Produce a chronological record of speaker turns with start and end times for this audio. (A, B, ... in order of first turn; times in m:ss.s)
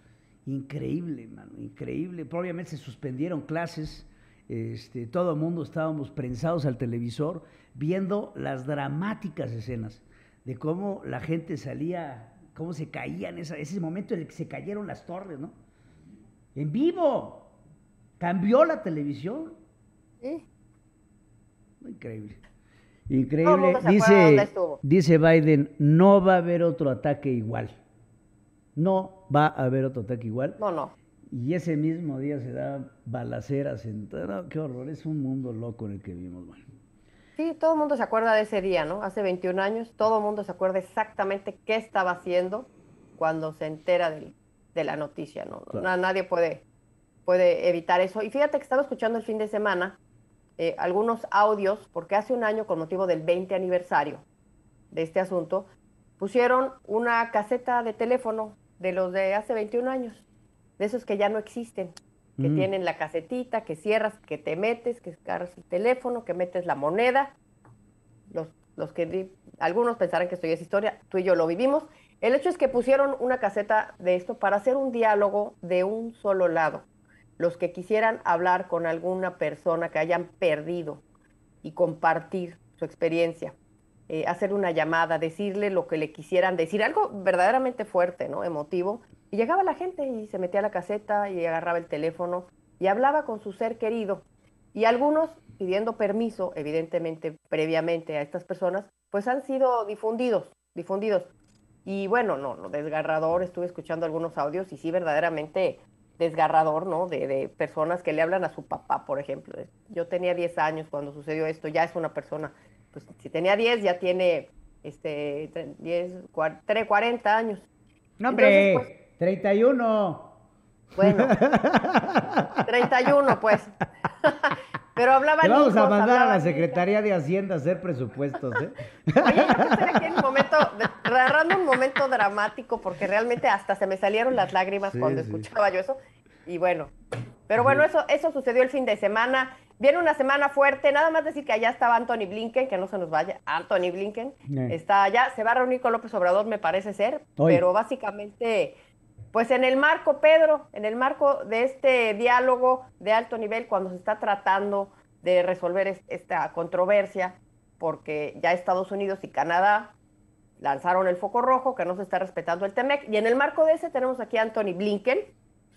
0:00.4-0:15.5 A
0:16.5-0:17.5 A
0:18.2-0:19.6 A
0:21.8-0:22.4 A
0:23.1-0:27.7 A
0:23.4-0:24.8 B
0:28.8-0:30.6 A
0:30.6-0:30.9 B
0:31.3-0:36.7 A
0:37.4-0:42.7 B
0:43.2-0:46.6 B
0:47.2-0:50.0 B
0:50.6-0:54.2 B
0:54.9-1:00.2 B
1:00.8-1:07.3 B
1:02.4-1:02.7 A
1:08.3-1:16.8 B
1:17.4-1:21.0 B
1:21.6-1:23.5 B
1:24.1-1:41.3 B
1:41.8-1:57.7 B
1:58.2-2:00.3 A
1:58.3-1:58.9 B
2:00.9-2:01.4 B
2:01.0-2:02.6 A
2:02.6-2:06.8 B
2:05.4-2:10.0 A
2:09.2-2:16.9 B
2:14.8-2:15.5 A
2:17.5-2:28.7 B
2:17.6-2:17.8 A
2:24.5-2:24.7 A
2:27.4-2:27.6 A
2:29.3-2:39.9 B
2:40.6-2:45.3 B